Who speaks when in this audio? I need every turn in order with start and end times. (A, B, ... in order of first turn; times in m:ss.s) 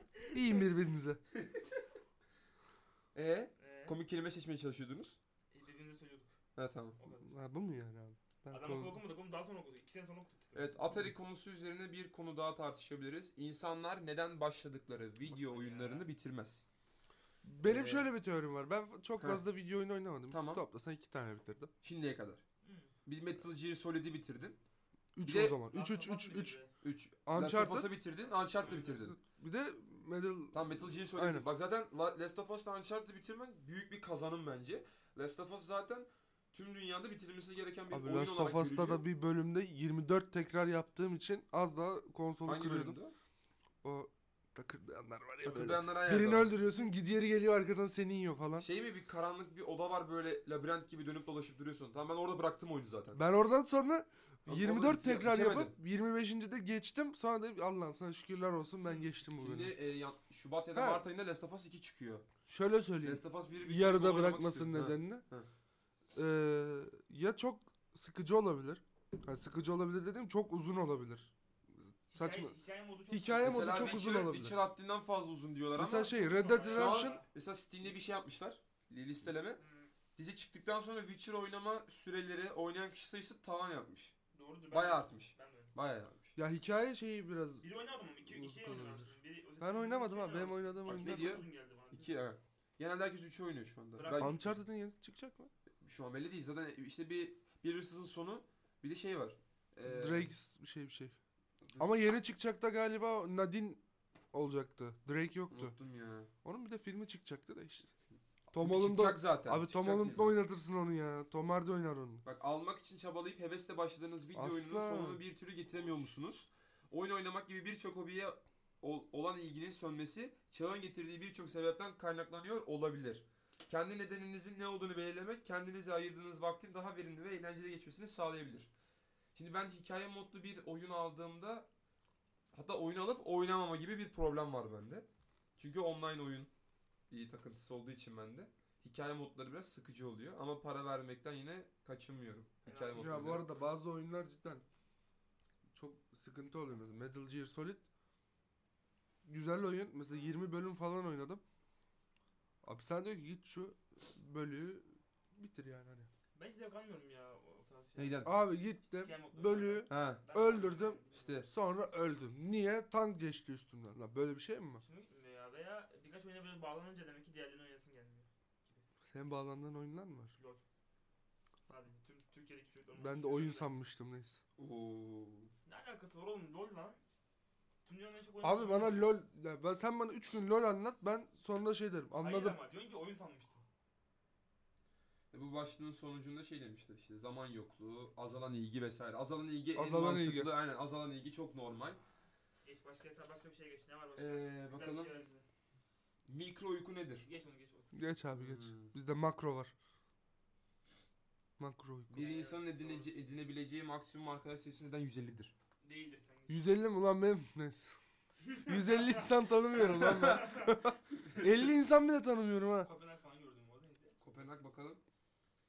0:00.3-0:01.2 A
0:01.4-0:01.6 B
0:03.1-0:05.2 B
0:03.6-0:04.0 C
0:05.5-0:06.4 C
0:06.6-0:07.0 B
0:07.0-0:07.3 C
0:07.2-0:09.0 A
0:08.5-0:10.8 C
0:10.5-0:16.6 B
0:15.3-0:16.1 C
0:17.4-0:21.7 A
0:17.6-0:18.1 B
0:20.3-0:20.6 B
0:21.8-0:22.4 B
0:22.6-0:22.9 C
0:23.0-0:24.6 B
0:25.2-0:26.6 A
0:25.2-0:25.6 B
0:25.6-0:26.7 C
0:26.8-0:29.2 B
0:27.2-0:27.9 A
0:28.6-0:29.0 C
0:28.6-0:31.5 A
0:30.5-0:39.0 B
0:37.9-0:43.0 A
0:42.4-0:43.1 B
0:43.8-0:48.7 A
0:45.4-0:46.5 B
0:48.6-0:53.2 B
0:53.1-0:59.7 A
0:54.4-0:55.7 B
0:59.3-1:02.2 B
1:00.7-1:01.0 A
1:02.5-1:05.2 A
1:03.0-1:05.5 B
1:06.1-1:11.3 A
1:11.9-1:12.5 A
1:12.1-1:14.0 C
1:13.1-1:14.6 A
1:13.4-1:16.1 B
1:15.8-1:17.2 A
1:16.0-1:17.3 C
1:16.6-1:19.6 B
1:19.6-1:19.9 C
1:20.2-1:24.1 B
1:24.3-1:25.7 C
1:24.7-1:26.4 B
1:26.4-1:27.6 A
1:27.6-1:32.1 C
1:28.2-1:31.4 A
1:30.8-1:34.5 B
1:34.0-1:34.5 C
1:34.2-1:35.5 A
1:35.8-1:40.3 B
1:39.8-1:41.1 A
1:41.6-1:42.0 B
1:41.8-1:43.8 A
1:44.3-1:45.7 A
1:45.5-1:46.3 B
1:46.4-1:47.9 A
1:48.5-1:52.2 A
1:48.5-1:50.4 B
1:52.2-2:08.7 B
1:54.3-1:55.2 A
2:09.3-2:11.7 B
2:12.5-2:15.0 B
2:15.6-2:16.5 B
2:17.1-2:23.5 B
2:22.6-2:23.3 C
2:22.9-2:24.6 A
2:25.7-2:27.8 A
2:29.2-2:31.4 A
2:30.1-2:30.4 C
2:32.6-2:36.1 A
2:36.3-2:41.5 C
2:38.0-2:38.3 B
2:38.2-2:44.8 A
2:39.9-2:40.2 B
2:41.1-2:41.5 B
2:44.8-2:48.8 C
2:49.1-2:50.3 A
2:50.4-2:50.6 C
2:51.7-2:53.8 C
2:53.0-2:54.4 A
2:54.6-2:55.5 B
2:55.6-2:57.0 C
2:57.8-2:59.1 C
2:58.4-3:02.6 A
3:02.2-3:03.6 C
3:05.3-3:12.0 B
3:09.7-3:10.5 A
3:12.6-3:15.4 C
3:14.2-3:15.1 B
3:16.3-3:17.3 B
3:17.2-3:18.2 C
3:17.9-3:19.7 A
3:18.3-3:18.9 B
3:21.6-3:22.3 A
3:22.1-3:25.5 B
3:22.1-3:23.1 C
3:25.8-3:26.6 C
3:26.5-3:28.0 A
3:28.4-3:31.0 C
3:28.6-3:32.9 A
3:29.8-3:30.4 B
3:32.8-3:34.2 C
3:34.2-3:35.0 B